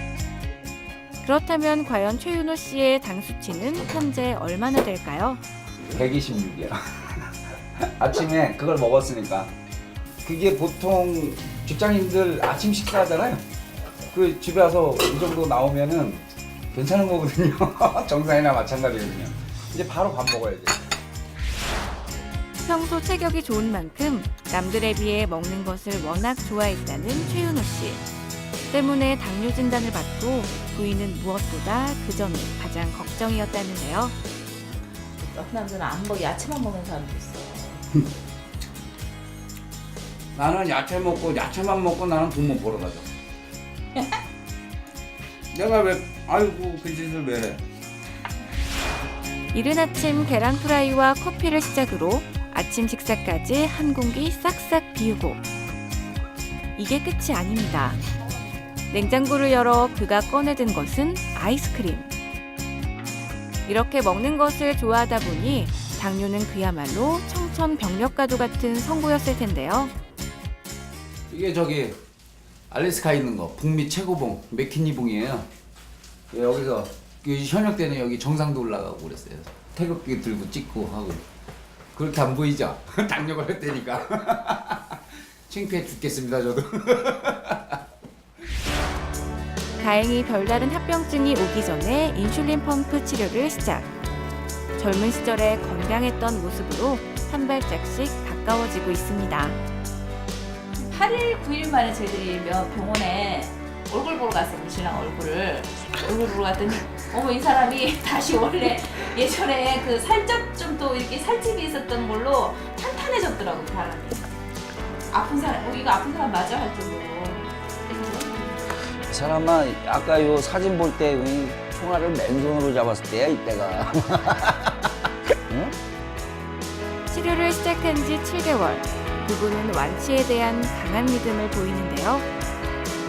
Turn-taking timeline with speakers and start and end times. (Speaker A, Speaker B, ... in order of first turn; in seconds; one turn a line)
Speaker A: 1.2-5.4
Speaker B: 5.9-9.5
Speaker B: 10.2-13.4
Speaker B: 14.1-20.8
Speaker A: 22.6-28.0
Speaker A: 28.7-34.1
Speaker C: 35.2-37.8
Speaker B: 40.3-43.1
Speaker B: 45.5-47.6
Speaker A: 49.5-55.4
Speaker A: 56.7-58.0
Speaker A: 58.9-62.1
Speaker A: 63.6-69.9
Speaker B: 71.3-71.9
Speaker B: 72.7-75.5
Speaker B: 76.3-81.2
Speaker B: 81.9-87.8
Speaker A: 89.8-93.9
Speaker A: 94.8-99.6
Speaker C: 100.9-114.2
Speaker C: 115.1-118.5
Speaker B: 119.1-124.9
Speaker B: 125.5-125.7
Speaker A: 127.1-132.3